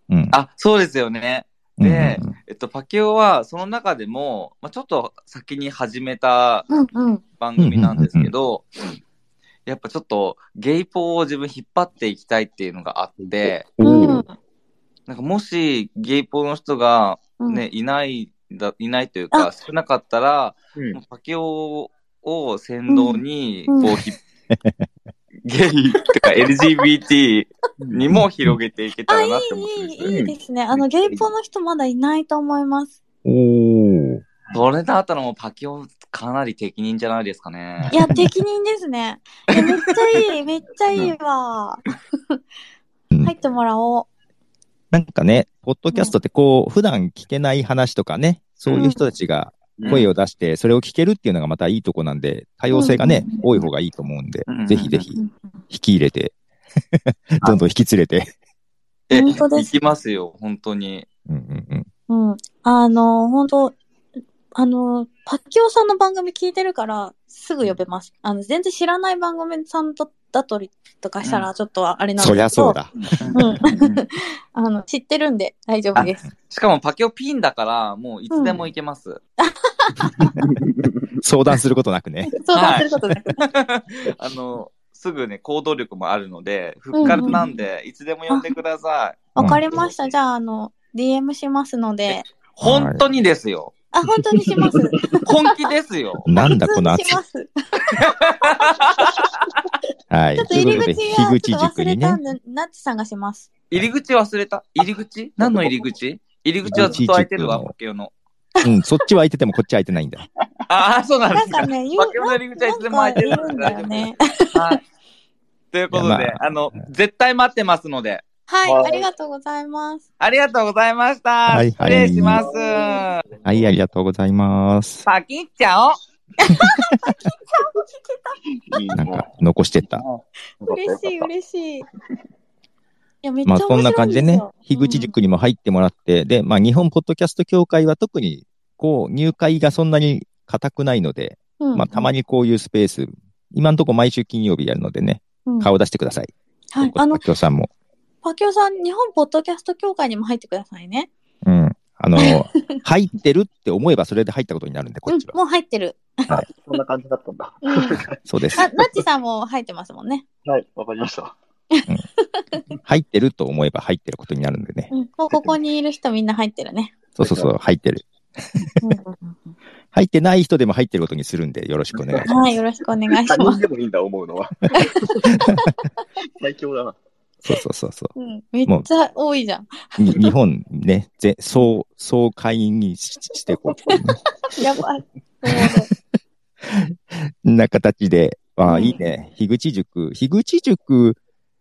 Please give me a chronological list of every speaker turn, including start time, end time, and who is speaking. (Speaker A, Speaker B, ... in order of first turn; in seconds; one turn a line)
Speaker A: 0.1-0.3
Speaker B: 0.3-6.7
Speaker A: 1.8-2.3
Speaker C: 6.7-7.2
Speaker B: 7.4-8.7
Speaker A: 7.6-8.3
Speaker B: 9.7-13.7
Speaker D: 13.2-13.5
Speaker A: 13.8-14.2
Speaker C: 13.8-14.3
Speaker B: 15.1-24.2
Speaker C: 22.9-23.9
Speaker A: 24.5-24.8
Speaker B: 25.4-30.1
Speaker D: 27.8-28.0
Speaker A: 28.1-28.6
Speaker C: 29.1-32.9
Speaker D: 30.0-30.3
Speaker A: 33.2-34.2
Speaker B: 34.5-38.0
Speaker C: 37.9-42.4
Speaker C: 43.2-44.1
Speaker A: 44.9-56.3
Speaker C: 48.8-49.0
Speaker D: 49.8-50.0
Speaker C: 52.7-53.7
Speaker B: 54.5-55.1
Speaker A: 57.0-58.3
Speaker B: 59.1-61.0
Speaker C: 59.1-59.7
Speaker A: 61.3-61.9
Speaker C: 62.1-63.8
Speaker C: 64.5-72.8
Speaker B: 71.2-71.5
Speaker A: 72.2-73.1
Speaker B: 73.2-74.0
Speaker C: 73.3-76.2
Speaker B: 76.0-79.2
Speaker C: 78.3-78.6
Speaker C: 79.4-80.3
Speaker D: 80.4-81.2
Speaker A: 81.2-82.3
Speaker C: 82.3-83.4
Speaker B: 82.5-89.3
Speaker C: 86.9-87.5
Speaker D: 87.0-87.4
Speaker C: 89.3-92.3
Speaker A: 89.4-89.6
Speaker B: 92.5-93.7
Speaker A: 92.6-93.0
Speaker C: 93.9-95.5
Speaker D: 94.6-95.2
Speaker B: 95.2-96.2
Speaker A: 96.2-97.2
Speaker C: 96.4-99.1
Speaker B: 97.9-99.3
Speaker A: 100.1-102.2
Speaker C: 100.4-103.5
Speaker B: 103.7-108.1
Speaker D: 105.4-105.9
Speaker A: 106.7-107.7
Speaker D: 106.7-107.0
Speaker A: 108.6-110.2
Speaker B: 110.7-114.8
Speaker C: 111.3-114.8
Speaker B: 115.7-118.2
Speaker A: 115.9-116.8
Speaker C: 118.5-120.0
Speaker D: 118.6-119.1
Speaker B: 120.2-123.2
Speaker A: 121.5-122.4
Speaker D: 121.8-123.7
Speaker A: 123.4-125.0
Speaker B: 125.0-126.0
Speaker C: 126.4-128.4
Speaker D: 128.6-129.3
Speaker A: 128.9-130.0
Speaker D: 129.8-131.3
Speaker C: 130.6-131.8
Speaker C: 133.2-135.2
Speaker A: 133.4-147.7
Speaker C: 141.6-142.1
Speaker C: 145.4-145.7
Speaker C: 146.7-147.2
Speaker C: 148.2-151.1
Speaker A: 151.4-155.3
Speaker C: 152.2-152.8
Speaker C: 155.1-156.3
Speaker D: 156.3-158.7
Speaker C: 157.6-158.0
Speaker A: 158.2-158.7
Speaker C: 158.6-160.2
Speaker D: 160.4-161.3
Speaker C: 161.7-162.5
Speaker A: 162.8-164.9
Speaker C: 164.9-166.9
Speaker D: 165.3-165.6
Speaker A: 167.2-168.6
Speaker D: 167.2-167.5
Speaker C: 168.8-169.5
Speaker A: 169.9-172.3
Speaker D: 171.9-172.3
Speaker C: 172.2-173.6
Speaker D: 173.1-175.3
Speaker C: 174.7-175.7
Speaker D: 176.2-177.0
Speaker A: 177.4-178.1
Speaker C: 178.2-180.2
Speaker A: 179.9-184.2
Speaker C: 184.5-185.9
Speaker A: 186.6-191.2
Speaker C: 188.6-189.0